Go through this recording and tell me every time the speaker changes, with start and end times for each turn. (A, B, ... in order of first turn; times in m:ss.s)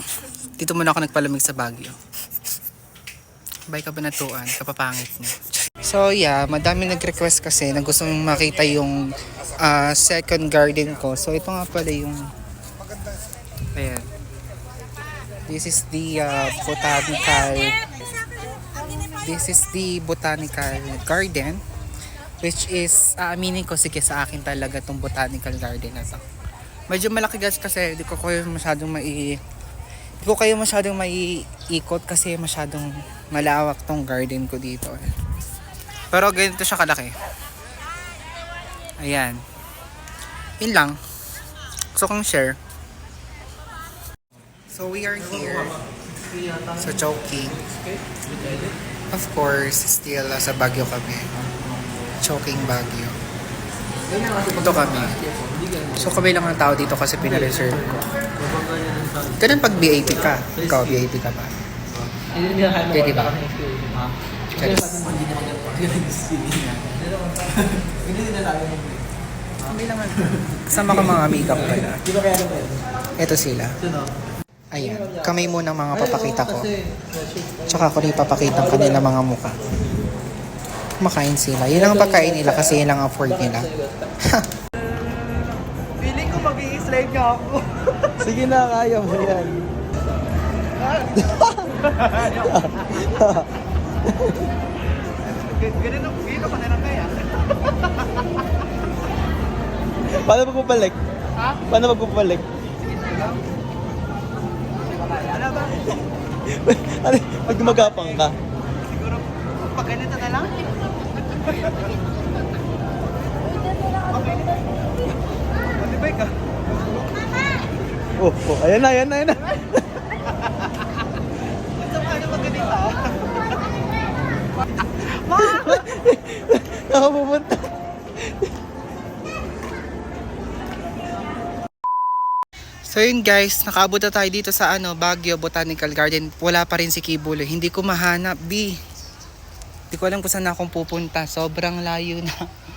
0:00.6-0:02.0 A
0:03.7-0:12.2 A
0:13.7-0:14.1 A
0:15.5-0:17.8 A
0:19.2-0:21.6 A
0:22.4-0:26.2 A
0:26.9-0:29.4 A
0:30.2-0:35.1 A
0:36.1-0:37.1 A
0:39.0-0:39.4 A
0:40.6-0:41.0 A
0:41.9-0:42.6 A
0:44.7-0:45.8 A
0:46.8-0:47.6 A
0:49.1-0:51.3 A
0:52.2-0:53.1 A
0:54.2-0:54.5 B
0:54.3-0:55.2 A
0:55.5-0:55.9 B
0:55.9-0:58.0 A
0:58.5-0:59.3 B
0:59.4-1:01.5 A
1:02.3-1:06.9 B
1:02.8-1:03.4 A
1:04.5-1:05.1 A
1:07.9-1:08.9 B
1:09.6-1:12.0 A
1:12.2-1:12.7 B
1:13.2-1:13.8 A
1:14.7-1:16.7 A
1:17.6-1:19.6 A
1:21.0-1:23.7 A
1:24.2-1:24.5 A
1:26.0-1:27.7 C
1:28.2-1:29.6 B
1:31.0-1:33.5 B
1:34.0-1:34.4 B
1:35.9-1:36.9 C
1:40.1-1:41.0 B
1:41.6-1:42.4 B
1:45.2-1:48.4 B
1:49.9-1:50.5 C
1:58.2-1:59.8 B
2:05.0-2:07.7 B
2:12.9-2:18.7 A
2:19.9-2:22.3 A